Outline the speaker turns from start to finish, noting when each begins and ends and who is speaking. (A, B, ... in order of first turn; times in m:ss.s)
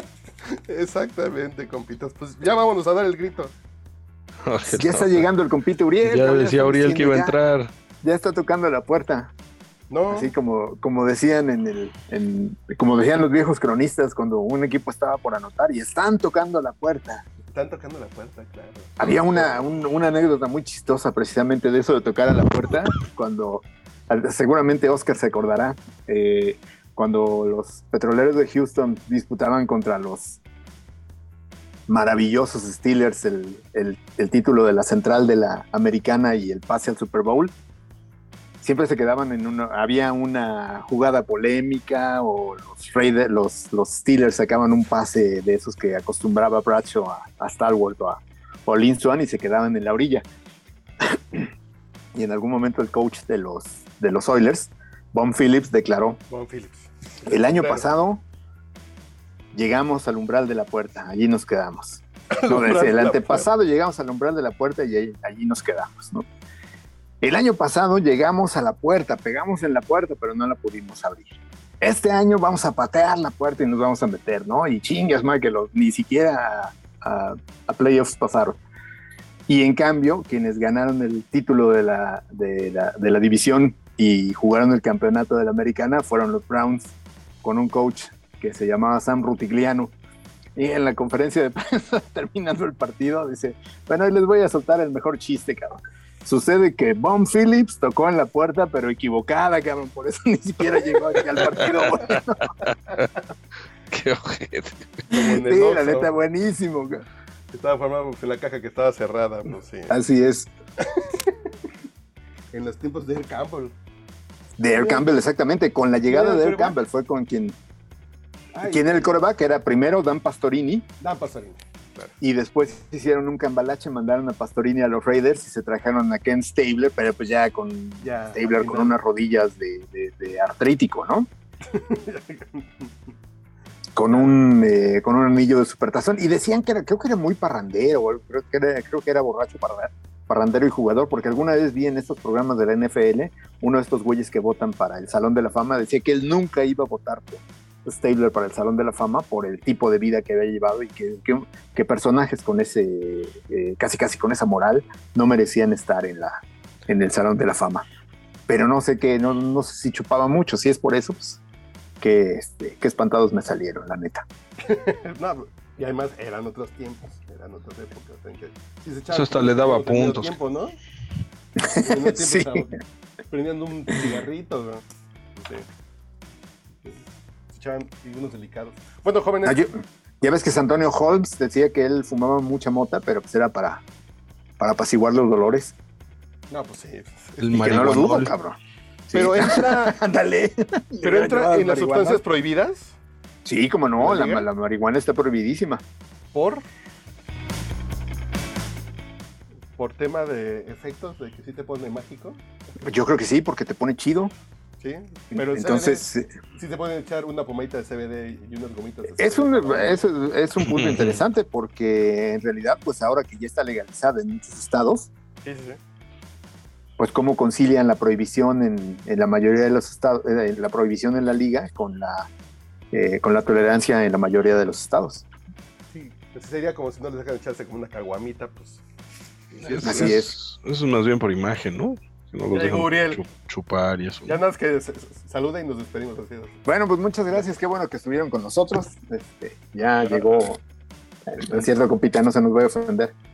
0:00.4-0:03.5 A
0:04.4-0:05.3 B
0:04.7-0:07.4 C
0:06.0-0:07.7 B
0:08.0-0:09.3 C
0:09.9-0:10.3 A
0:10.1-0:17.2 C
0:17.5-0:19.7 A
0:19.0-0:30.4 C
0:31.9-0:37.5 C
0:38.6-0:50.2 C
0:51.0-0:51.5 C
0:52.2-0:56.2 C
0:56.3-0:57.9 A
0:57.3-0:58.2 C
0:59.5-1:06.3 C
1:02.3-1:03.5 A
1:07.2-1:18.6 C
1:19.5-1:29.9 C
1:30.6-1:42.6 C
1:43.9-1:45.1 B
1:45.1-1:46.1 A
1:45.2-1:47.0 C
1:47.5-1:50.0 A
1:49.9-1:50.5 C
1:50.8-1:51.5 A
1:52.5-1:53.8 A
1:54.6-1:57.6 C
1:54.7-1:55.1 A
1:56.1-1:56.8 A
1:58.5-1:59.2 A
1:58.7-2:00.9 C
2:01.0-2:02.2 A
2:02.2-2:11.3 C
2:08.0-2:09.0 A
2:11.7-2:13.1 A
2:14.0-2:37.8 C
2:14.1-2:14.4 A
2:38.5-2:41.4 C
2:42.0-2:44.2 C
2:44.6-2:50.8 A
2:49.1-2:50.4 B
2:51.6-2:52.7 C
2:51.8-2:54.8 A
2:55.4-2:55.7 A
2:56.8-2:59.6 A
2:59.4-3:03.8 C
3:04.6-3:05.8 C
3:06.5-3:08.3 A
3:07.4-3:08.3 B
3:07.5-3:08.6 C
3:09.1-3:10.0 A
3:09.1-3:12.2 C
3:11.0-3:13.0 A
3:13.4-3:15.8 C
3:14.0-3:14.5 A
3:16.3-3:16.6 A
3:19.8-3:22.4 A
3:22.8-3:24.3 C
3:24.8-3:30.1 A
3:25.3-3:26.3 C
3:29.2-3:35.1 C
3:30.6-3:31.2 B
3:35.4-3:35.8 A
3:37.0-3:42.3 C
3:42.9-3:45.3 C
3:45.9-3:48.8 A
3:49.5-3:50.2 A
3:49.6-3:54.4 B
3:49.8-3:50.3 C
3:52.5-3:53.2 A
3:54.3-3:56.6 A
3:56.7-4:00.6 C
4:00.0-4:00.5 A
4:01.3-4:03.1 C